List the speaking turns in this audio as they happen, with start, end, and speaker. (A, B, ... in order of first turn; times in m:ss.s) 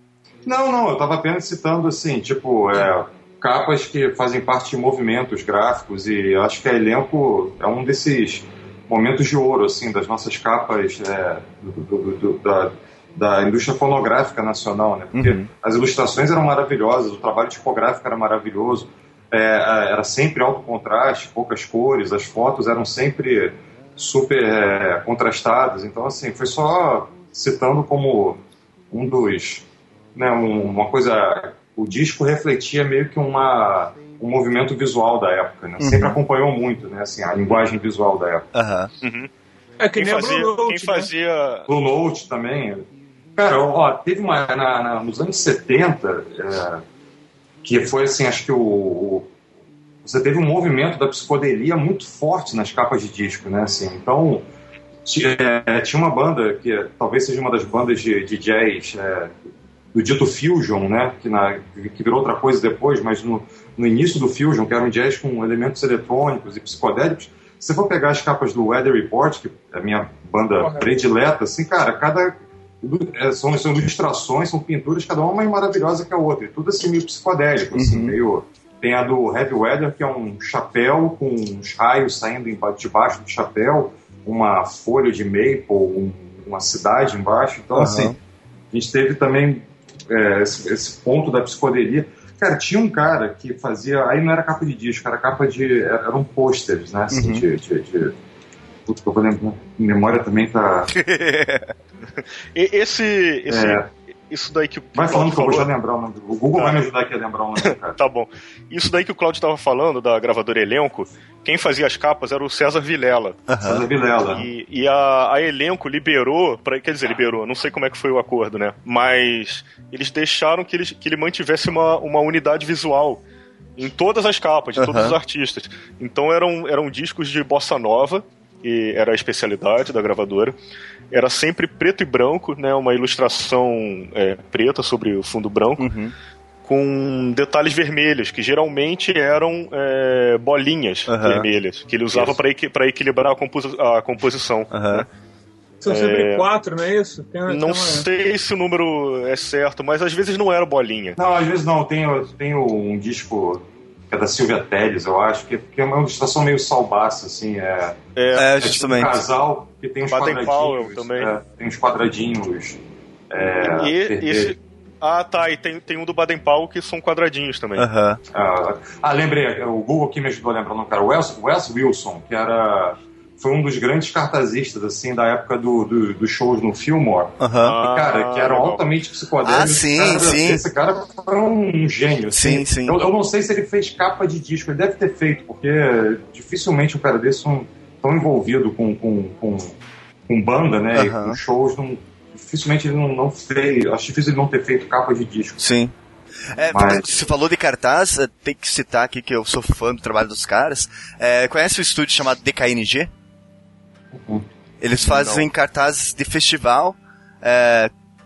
0:00.4-0:28.4 A
0:15.1-0:15.5 B
0:28.9-0:38.5 A
0:35.8-0:36.2 B
0:38.5-0:38.9 B
0:39.0-0:39.3 C
0:39.8-0:41.1 D
0:39.9-0:41.7 C
0:41.7-0:46.8 A
0:47.6-0:49.3 A
0:50.0-0:54.4 A
0:55.0-0:59.3 A
0:59.9-1:28.1 A
1:10.6-1:10.9 D
1:17.7-1:18.2 B
1:27.7-1:28.2 B
1:28.7-1:38.1 A
1:37.1-1:37.4 B
1:38.9-1:40.9 A
1:40.9-1:41.7 B
1:42.2-1:45.7 C
1:43.5-1:43.9 A
1:44.9-1:48.0 A
1:46.5-1:46.9 C
1:47.6-1:53.4 C
1:53.5-1:53.8 B
1:53.6-1:54.4 A
1:54.2-2:03.2 C
2:03.8-2:10.5 C
2:04.8-2:05.2 B
2:11.1-2:15.9 C
2:15.8-2:16.1 B
2:16.6-2:25.1 C
2:21.1-2:21.5 B
2:24.7-2:25.0 B
2:25.8-2:28.1 D
2:25.8-2:26.4 C
2:27.5-2:31.2 C
2:31.2-2:38.0 A
2:38.2-2:38.5 C
2:38.3-2:39.2 B
2:38.6-2:42.8 A
2:40.1-2:41.3 C
2:43.3-2:44.5 A
2:43.8-2:47.9 C
2:47.8-2:48.2 B
2:48.3-3:09.8 A
2:57.4-2:57.8 B
2:57.6-2:58.8 C
2:59.4-3:00.6 B
3:02.3-3:03.0 B
3:10.3-3:15.6 A
3:10.9-3:11.4 B
3:15.6-3:15.9 B
3:16.5-3:23.1 B
3:16.7-3:17.2 A
3:24.1-3:24.4 A
3:24.8-3:27.9 B
3:25.0-3:25.5 C